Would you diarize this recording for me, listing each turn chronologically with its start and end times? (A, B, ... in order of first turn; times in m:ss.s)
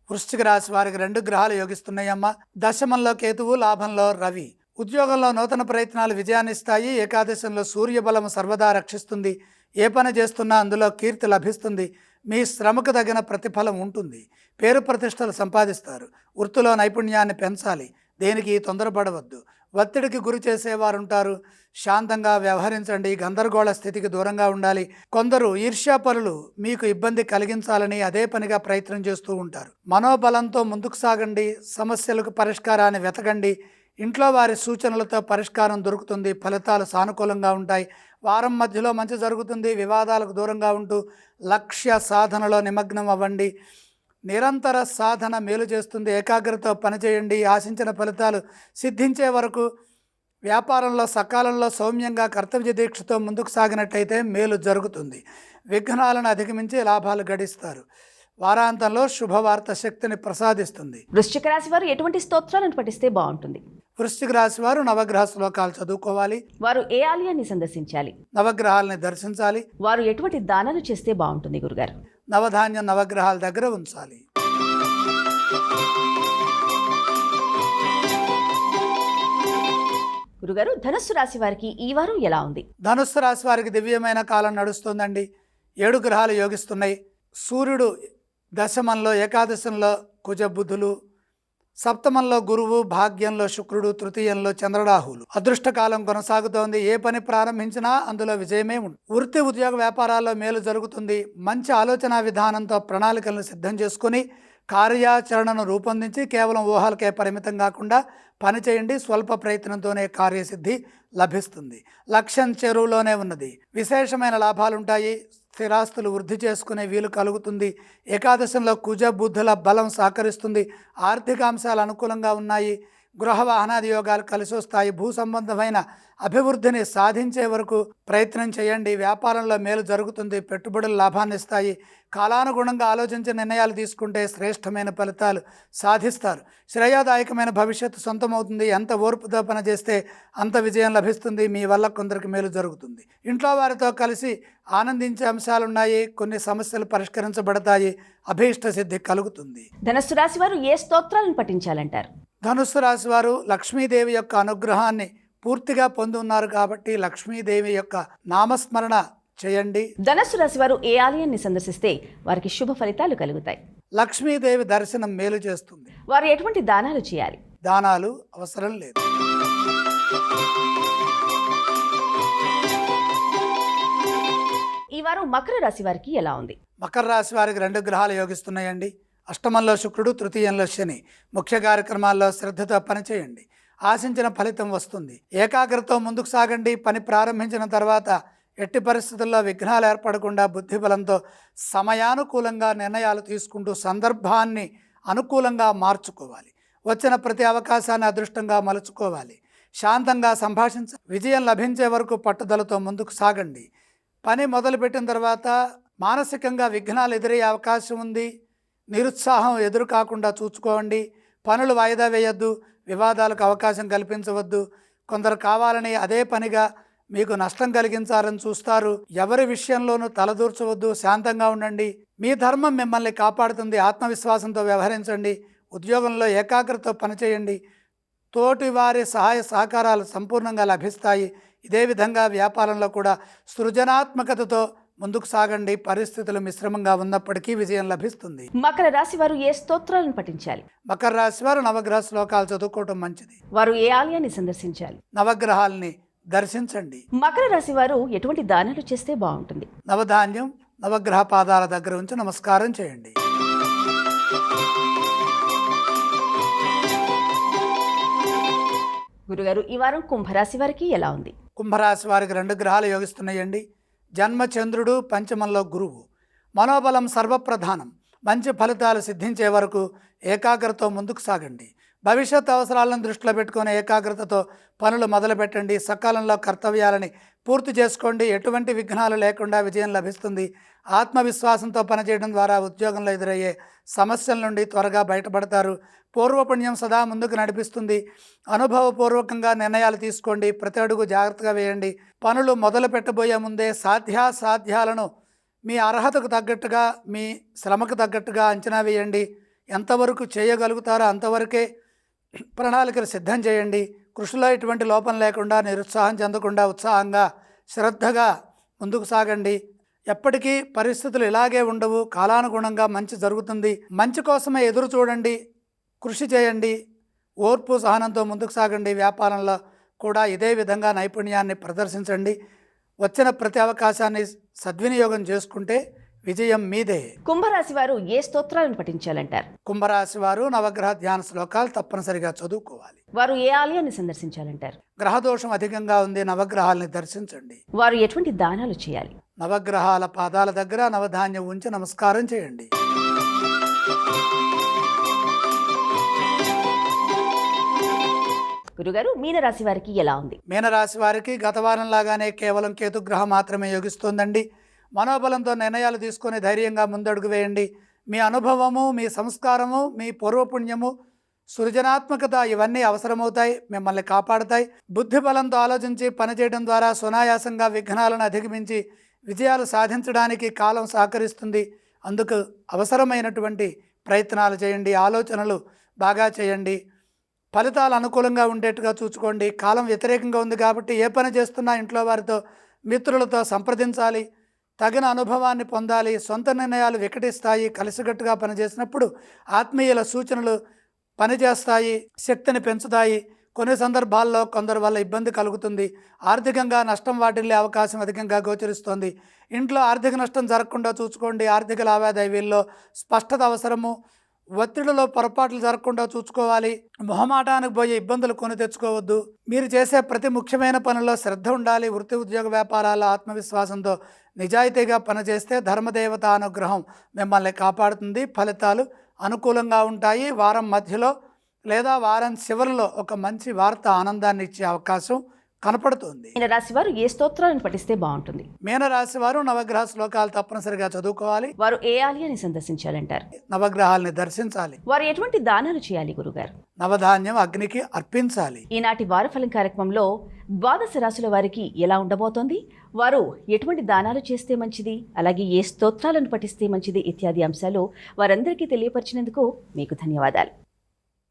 0:00.1-0:41.0 A
0:41.5-0:43.5 A
0:44.3-0:49.6 A
0:50.5-0:57.8 A
0:58.4-1:01.0 A
1:01.1-1:03.6 B
1:04.0-1:06.4 A
1:06.6-1:08.1 B
1:08.3-1:09.6 A
1:09.8-1:11.9 B
1:12.3-1:14.2 A
1:20.4-1:22.6 B
1:22.8-1:25.2 A
1:25.8-1:27.9 A
1:28.6-1:30.9 A
1:31.8-2:29.7 A
2:29.8-2:32.1 B
2:32.4-2:39.9 A
2:40.0-2:43.6 B
2:44.0-2:45.9 A
2:46.1-2:47.4 B
2:47.6-2:49.0 A
2:54.9-2:56.6 B
2:56.8-3:11.2 A
3:11.7-3:23.7 A
3:24.2-3:28.3 A
3:28.9-3:47.6 A
3:48.3-3:58.5 A
3:58.6-4:00.6 B
4:00.9-4:03.4 A
4:03.6-4:05.0 B
4:05.1-4:07.0 A
4:07.2-4:09.7 B
4:09.9-4:13.1 A
4:19.3-4:21.3 B
4:21.6-4:23.6 A
4:24.2-4:26.0 A
4:26.6-4:48.0 A
4:48.5-4:55.1 A
4:55.7-5:01.6 A
5:02.6-5:09.6 A
5:10.1-5:15.4 A
5:16.0-5:16.7 A
5:17.4-5:22.4 A
5:23.0-5:27.0 A
5:27.2-5:29.5 B
5:29.6-5:33.0 A
5:33.2-5:34.8 B
5:35.0-5:37.6 A
5:37.8-5:39.1 B
5:39.4-5:42.7 A
5:48.8-5:50.4 B
5:50.5-5:54.4 A
5:55.0-6:00.9 A
6:01.5-6:16.8 A
6:17.5-6:22.4 A
6:22.9-6:24.2 A
6:24.8-6:30.6 A
6:31.2-6:43.9 A
6:44.6-7:01.1 A
7:01.7-7:06.3 A
7:06.4-7:08.4 B
7:08.6-7:11.5 A
7:11.6-7:13.2 B
7:13.5-7:14.8 A
7:14.9-7:16.5 B
7:16.8-7:18.6 A
7:18.7-7:20.1 B
7:20.6-7:30.5 B